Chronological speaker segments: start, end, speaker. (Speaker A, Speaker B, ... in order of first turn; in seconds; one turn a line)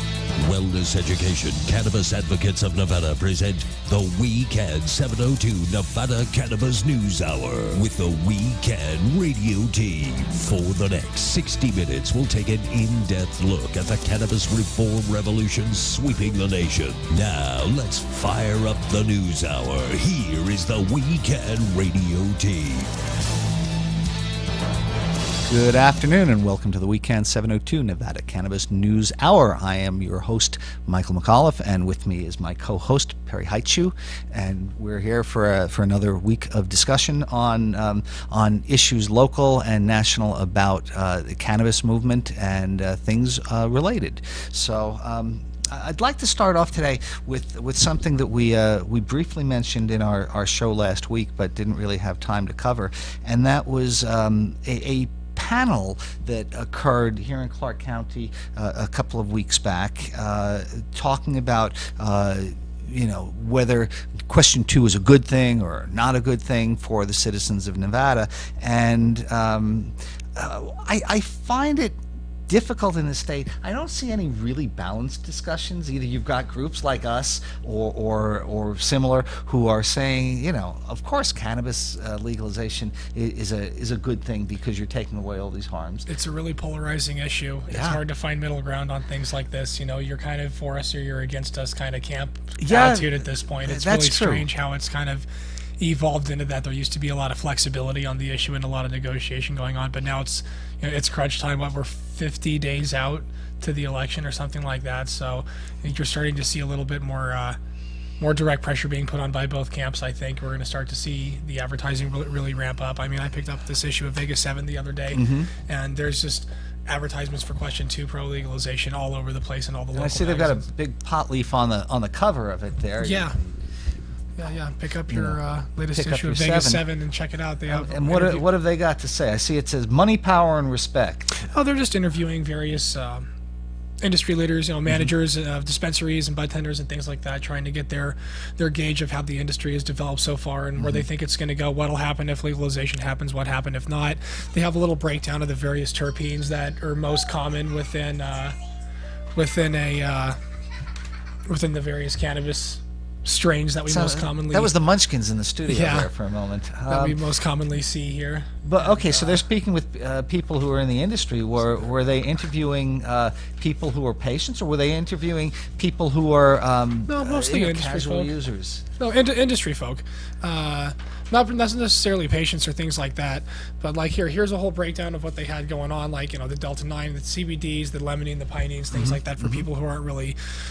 Speaker A: 0.3-22.9
Speaker B: 25.5-72.0
Speaker B: 72.5-86.1
Speaker C: 86.1-95.2
Speaker B: 87.7-88.0
Speaker B: 92.6-94.5
Speaker C: 95.8-107.6
Speaker C: 108.2-120.7
Speaker B: 115.1-115.5
Speaker B: 119.9-123.5
Speaker C: 123.0-123.3
Speaker C: 124.4-128.4
Speaker B: 125.1-125.4
Speaker B: 125.9-126.8
Speaker B: 127.7-131.4
Speaker C: 131.5-133.3
Speaker C: 134.0-148.5
Speaker B: 140.8-141.1
Speaker C: 149.3-150.4
Speaker C: 151.5-154.7
Speaker B: 153.9-157.2
Speaker C: 155.7-156.1
Speaker C: 156.9-159.4
Speaker B: 158.6-168.8
Speaker C: 167.1-168.3
Speaker C: 169.0-180.4
Speaker B: 178.9-179.7